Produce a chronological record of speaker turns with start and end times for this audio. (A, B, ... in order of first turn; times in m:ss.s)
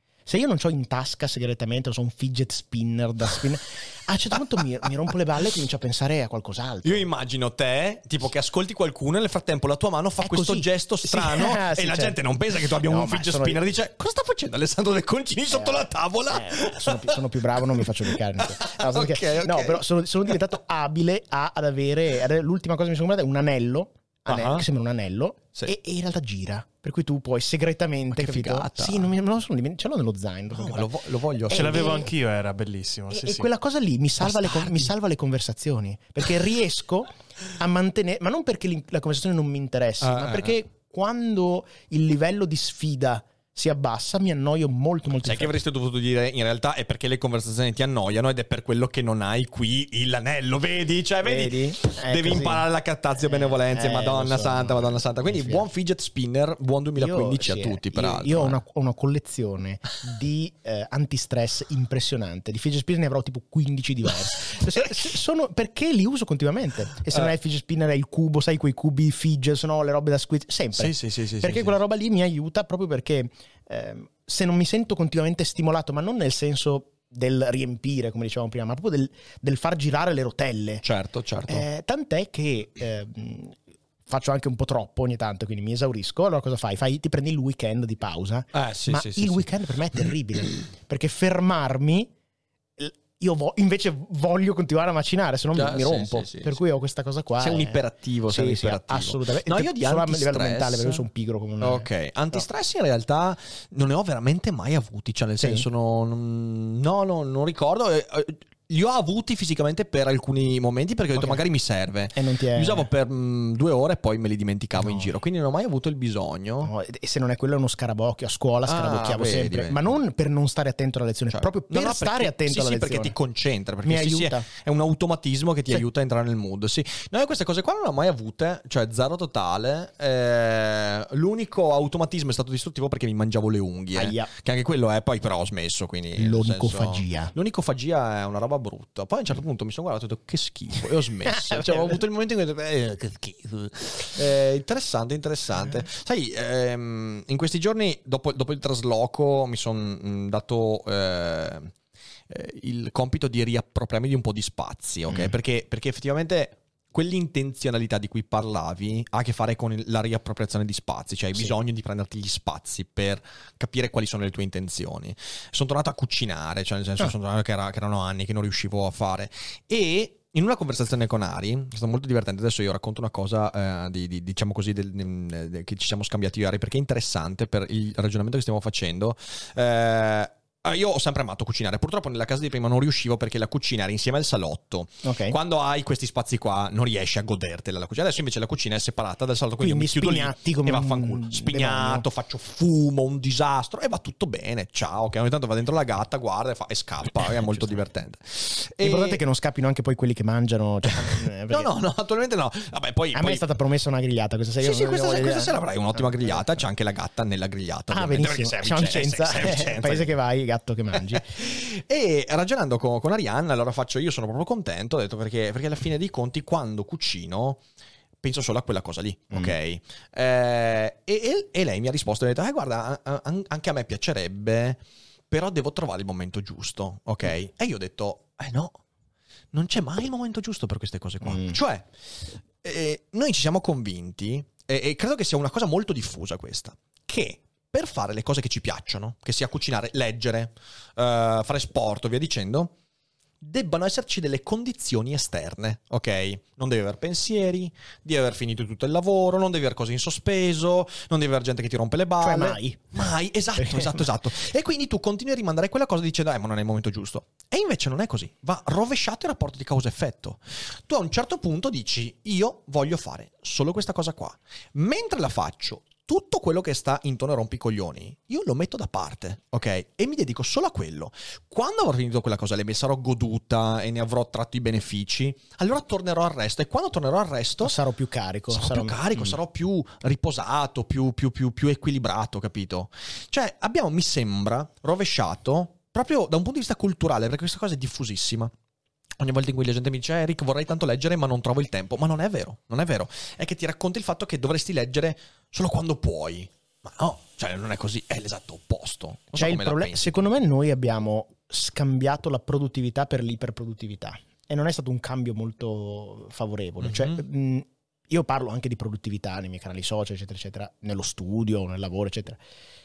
0:00.2-0:07.0 A
0:06.8-0:17.1 B
0:10.2-0:13.6 A
0:15.5-0:30.9 A
0:17.7-0:20.3 B
0:24.3-0:24.6 B
0:28.1-0:29.1 B
0:30.5-0:32.0 B
0:31.5-0:32.1 A
0:31.5-0:33.5 C
0:33.1-0:45.6 A
0:34.2-0:34.9 B
0:40.0-0:40.6 B
0:45.2-0:58.6 B
0:51.2-0:52.6 A
0:53.2-0:55.6 A
0:57.0-1:20.8 A
1:04.6-1:04.9 B
1:10.8-1:11.7 B
1:11.0-1:11.2 C
1:20.8-1:21.6 B
1:21.5-1:23.6 A
1:24.1-1:32.1 A
1:28.5-1:29.5 B
1:32.8-1:42.4 A
1:35.5-1:36.6 B
1:37.4-1:41.0 B
1:41.6-1:56.7 B
1:45.4-1:45.6 A
1:51.1-1:51.4 A
1:52.1-1:52.9 A
1:54.8-1:55.1 A
1:56.6-2:03.1 A
1:58.6-1:59.9 B
2:01.3-2:31.7 B
2:03.8-2:04.4 A
2:13.9-2:14.3 A
2:16.2-2:17.3 A
2:21.3-2:22.0 A
2:32.3-3:19.2 B
3:05.0-3:05.4 A
3:09.6-3:12.0 A
3:18.8-3:21.7 A
3:21.5-3:23.4 B
3:23.1-3:26.6 A
3:24.6-3:30.1 B
3:27.9-3:31.2 A
3:31.0-3:37.6 B
3:38.2-3:48.8 B
3:49.5-3:51.9 B
3:51.2-3:51.6 A
3:52.6-4:02.7 B
4:03.4-4:37.8 B
4:12.2-4:12.9 A
4:13.6-4:14.0 A
4:37.6-4:39.4 A
4:38.5-4:48.5 B
4:49.2-5:00.2 B
4:59.3-5:12.4 A
5:06.8-5:07.2 B